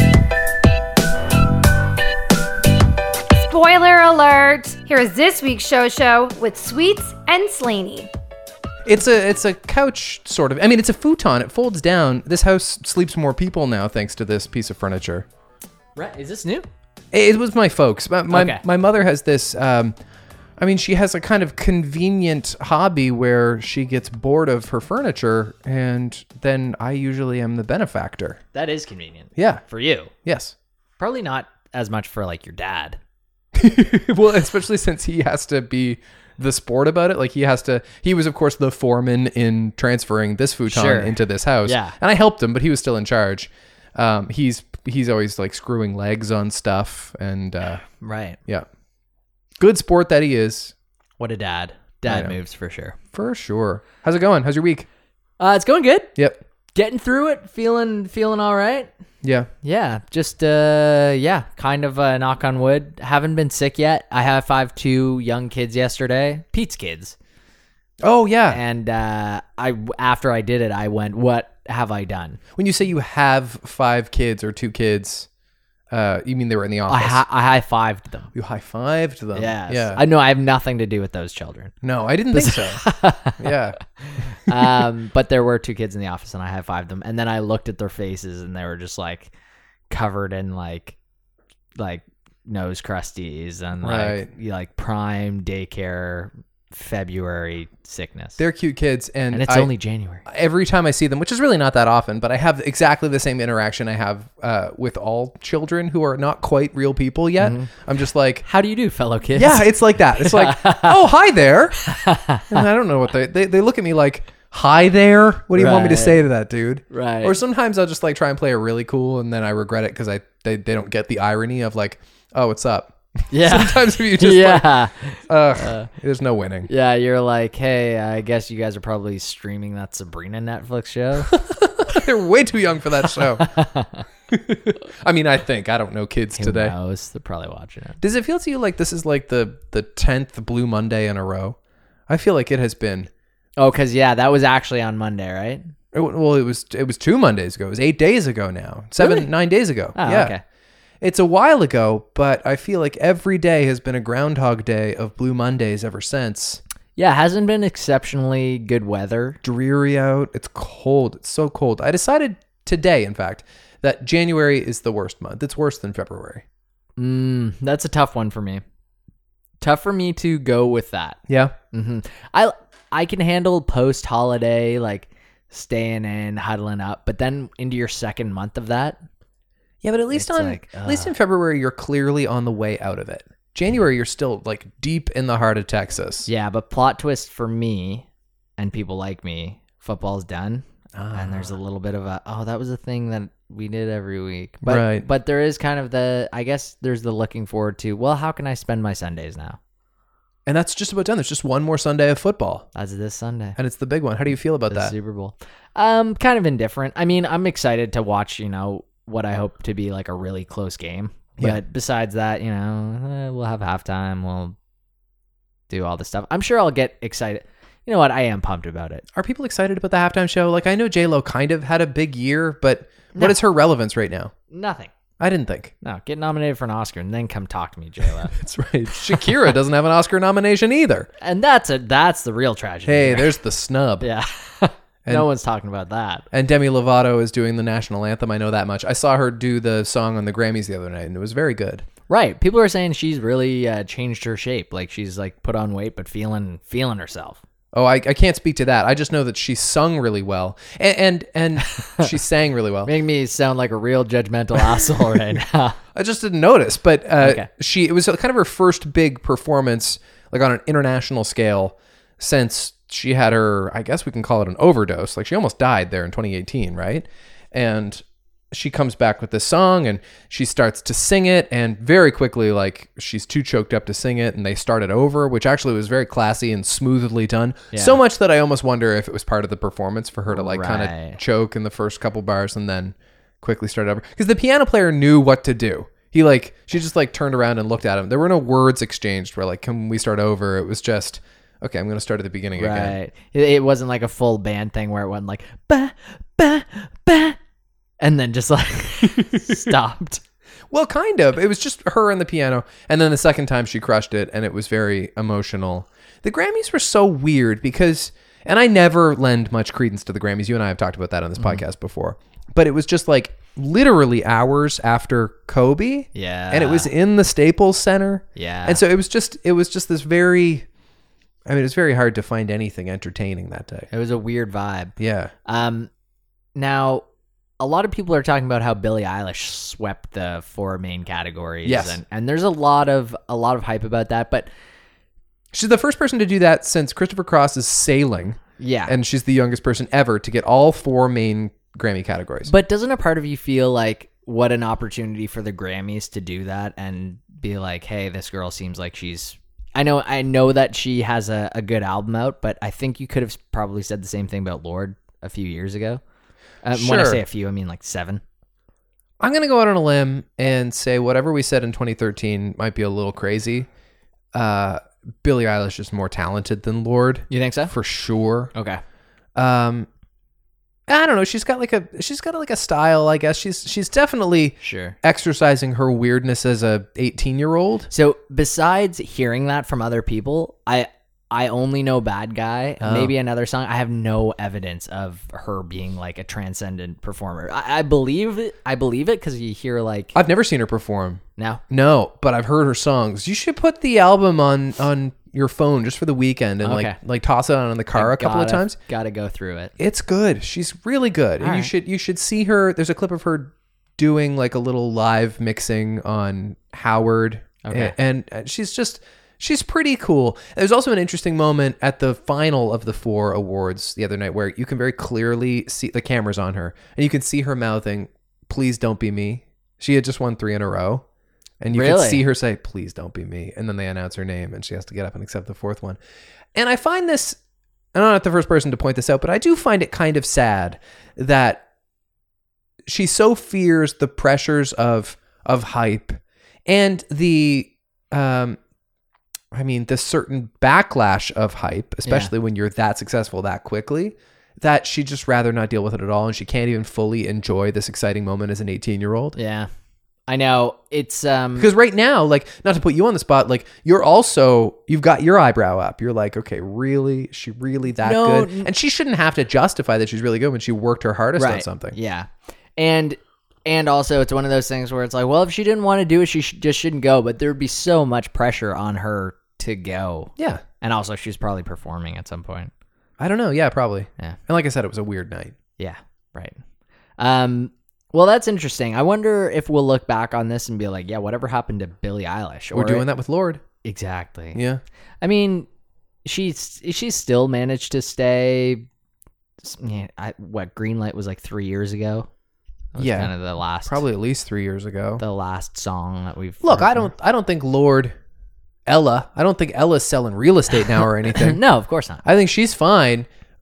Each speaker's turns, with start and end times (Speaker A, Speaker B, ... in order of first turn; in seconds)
Speaker A: 3.3-8.1
Speaker B: 8.9-15.3, 17.1-20.0, 20.6-28.4, 29.4-29.6, 30.2-30.6, 33.5-47.8, 49.6-50.7, 52.1-52.4, 53.1-54.9, 59.2-59.5, 68.0-68.6, 72.6-75.3, 75.9-77.2, 78.3-80.0, 81.8-82.8, 83.4-83.8, 84.5-84.7, 93.8-94.3, 98.4-99.7, 100.3-108.5, 109.3-111.8, 112.5-126.7, 131.3-133.5, 134.3-136.8, 138.0-141.6, 142.1-143.1, 145.9-150.3, 151.0-156.6, 159.4-166.4, 171.3-171.6, 179.8-186.3, 190.9-191.5, 194.6-195.1, 200.5-202.7, 203.6-204.9, 219.1-224.3, 225.2-225.7, 228.3-231.1, 232.9-234.1, 236.3-241.8, 247.7-252.9, 255.9-292.9, 299.2-299.7, 300.7-320.7, 321.5-323.9, 325.0-325.3, 331.7-332.0, 335.5-342.5, 356.7-357.2, 359.2-363.7, 364.3-368.5, 369.4-369.9, 370.9-377.9, 382.8-383.1, 390.1-398.8, 399.8-421.0, 421.6-426.0, 426.6-427.4, 427.9-431.6, 432.9-438.6, 439.5-449.4, 451.6-461.9, 470.4-470.6, 473.2-475.6, 482.7-483.6, 484.6-484.8, 493.0-493.3, 493.9-495.2, 496.6-498.1, 498.9-501.6, 502.2-503.3
Speaker C: 16.0-16.7, 18.3-18.6, 28.5-30.1, 31.0-33.0, 40.7-42.0, 48.0-48.4, 51.2-53.0, 55.4-56.1, 56.8-58.9, 59.6-67.2, 68.5-72.4, 76.9-78.3, 79.3-81.7, 82.3-89.3, 89.9-91.0, 91.8-98.4, 99.3-100.2, 107.4-107.7, 108.5-111.1, 111.8-112.6, 115.5-116.2, 116.9-117.4, 123.3-125.9, 126.7-131.3, 133.2-134.1, 136.4-138.0, 143.6-145.6, 149.0-149.3, 149.9-150.4, 157.0-159.4, 167.0-168.6, 169.6-171.2, 171.7-179.0, 180.1-181.1, 186.3-188.1, 188.6-199.6, 202.8-203.6, 204.7-214.6, 215.7-219.1, 224.5-224.9, 225.8-228.4, 231.2-233.4, 234.0-236.3, 242.1-247.4, 251.7-252.1, 252.9-255.8, 257.2-257.5, 277.7-278.0, 280.3-281.2, 292.6-297.4, 298.0-300.2, 311.4-311.6, 316.1-316.9, 318.4-318.8, 323.9-324.9, 325.4-325.9, 326.6-327.0, 327.6-334.5, 338.6-338.9, 342.5-356.0, 356.6-358.2, 367.3-367.7, 368.5-368.8, 374.6-375.0, 377.9-390.1, 391.4-391.6, 396.6-397.0, 397.9-399.7, 401.4-401.7, 407.6-407.9, 421.7-422.2, 442.1-442.3, 449.4-449.7, 450.3-451.7, 458.0-458.7, 461.4-472.7, 475.8-476.6, 477.2-483.1, 483.8-484.6, 485.2-485.7, 486.2-488.9, 489.6-492.3, 492.9-494.0, 495.2-497.1, 501.3-502.2